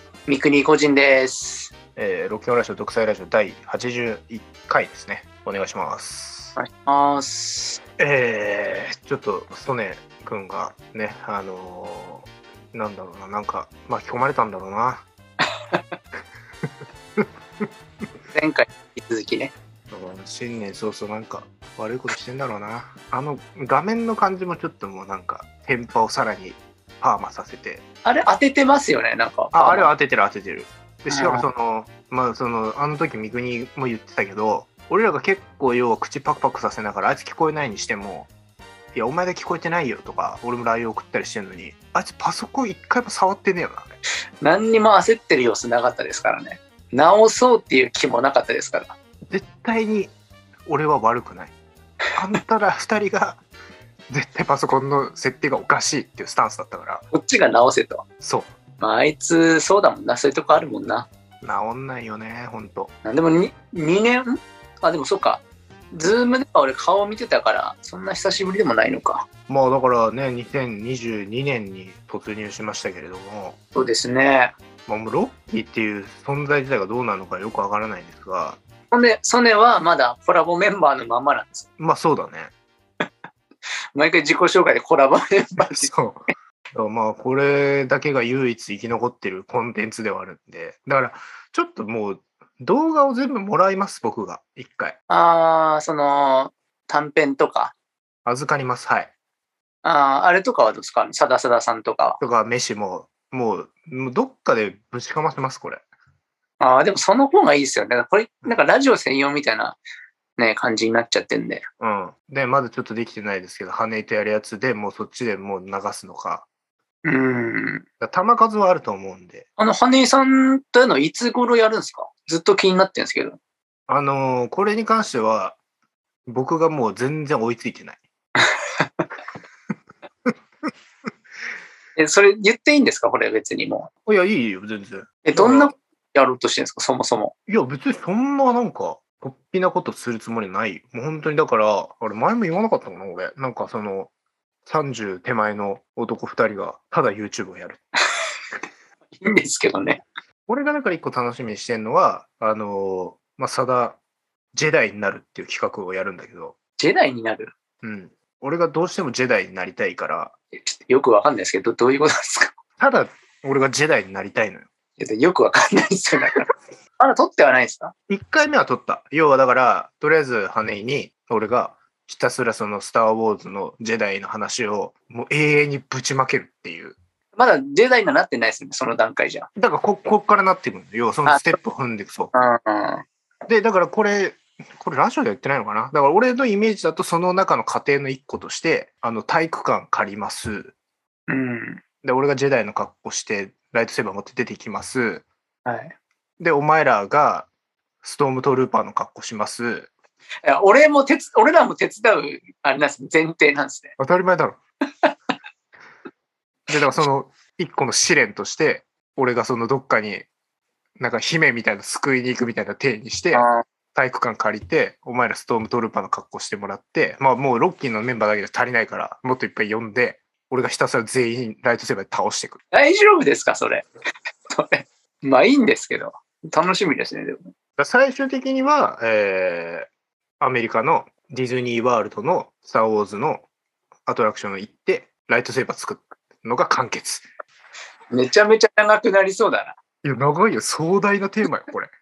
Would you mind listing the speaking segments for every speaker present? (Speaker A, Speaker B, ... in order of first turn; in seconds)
Speaker A: 0.3-1.7, 6.5-7.8, 18.3-19.5, 28.0-29.9, 31.1-31.5, 44.4-48.9, 57.1-58.0, 58.8-61.1, 63.0-69.2, 73.7-74.5, 78.9-81.7, 83.9-85.9, 95.1-97.7, 99.8-102.2, 106.6-109.8, 110.4-111.6, 117.0-117.8, 119.6-123.4, 128.4-129.1, 131.9-133.9, 135.2-137.3, 149.2-150.0, 156.8-157.5, 160.5-162.5, 165.0-167.9, 177.3-179.5, 181.3-181.6, 182.3-183.0, 191.3-191.8, 195.6-195.9, 200.4-203.9, 213.3-213.6, 222.7-223.9, 224.5-227.5, 238.1-239.8
Speaker B: 1.9-6.6, 8.0-15.0, 17.2-17.7, 19.9-27.8, 29.5-38.3, 38.9-43.9, 49.3-50.1, 50.6-51.5, 52.1-53.4, 54.1-57.0, 58.2-58.5, 61.4-62.9, 69.5-73.6, 74.9-78.6, 81.8-82.5, 85.6-95.0, 98.2-99.1, 102.2-105.8, 111.8-116.5, 118.0-119.5, 123.9-125.6, 126.2-128.0, 134.1-135.7, 137.5-144.1, 144.6-147.8, 150.5-154.0, 154.5-156.5, 157.8-160.3, 162.8-164.7, 168.1-177.0, 179.6-182.3, 183.5-190.7, 192.0-195.2, 196.4-197.5, 198.0-199.9, 204.0-204.6, 206.7-210.3, 211.0-222.6, 227.8-229.9, 230.4-233.4, 234.1-237.2, 240.0-241.9